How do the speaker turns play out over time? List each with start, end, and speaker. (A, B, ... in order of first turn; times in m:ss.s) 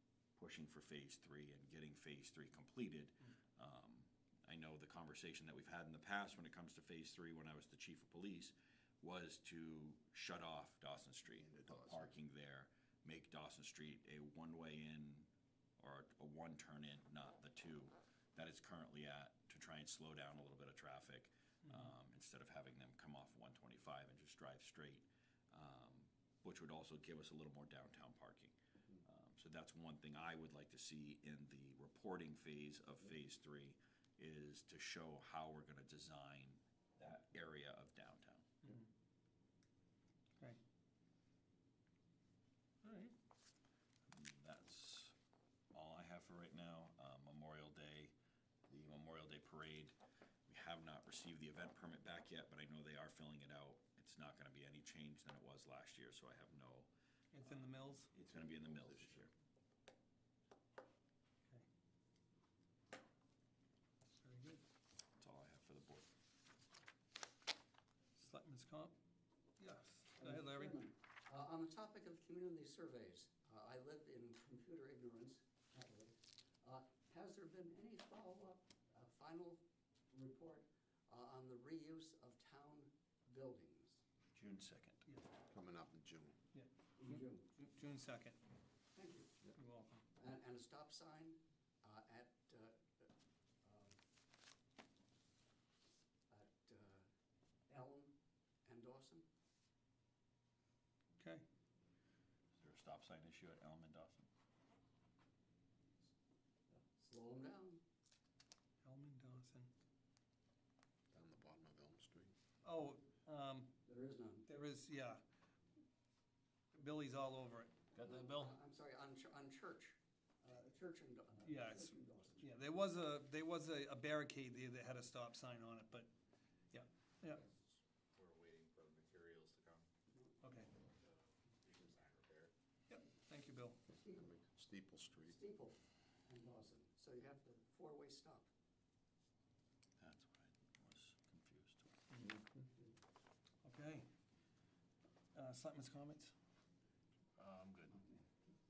0:00.4-0:38.7 A
0:11.4-0:12.1 B
0:42.8-0:43.2 C
0:44.1-0:45.2 A
0:45.7-0:48.2 A
0:48.7-0:56.9 A
0:57.3-0:58.1 C
0:57.4-0:59.3 A
0:58.3-0:59.3 B
1:04.2-1:04.6 C
1:05.2-1:06.1 A
1:08.2-1:09.0 C
1:09.6-1:10.9 C
1:10.2-1:24.0 D
1:24.3-1:25.0 A
1:25.5-1:26.4 B
1:26.5-1:28.4 C
1:27.0-1:27.5 D
1:28.9-1:29.4 D
1:29.6-1:30.0 C
1:30.2-1:33.1 D
1:33.6-1:34.0 D
1:36.3-1:37.0 D
1:37.7-1:39.3 D
1:41.2-1:41.5 C
1:42.6-1:44.3 A
1:46.7-1:47.8 D
1:48.8-1:49.7 C
1:51.1-1:52.3 B
1:52.6-1:53.8 C
1:53.9-1:54.5 D
1:54.5-1:55.2 C
1:56.7-1:58.0 C
1:58.0-2:02.7 D
2:01.4-2:06.1 C
2:06.7-2:07.5 C
2:07.7-2:09.9 E
2:10.4-2:10.7 C
2:10.8-2:12.5 E
2:12.9-2:13.8 C
2:13.9-2:14.2 D
2:14.1-2:15.4 B
2:15.3-2:18.5 D
2:20.0-2:22.0 A
2:22.1-2:22.4 C
2:22.2-2:22.7 B
2:23.6-2:24.1 C
2:25.3-2:26.3 C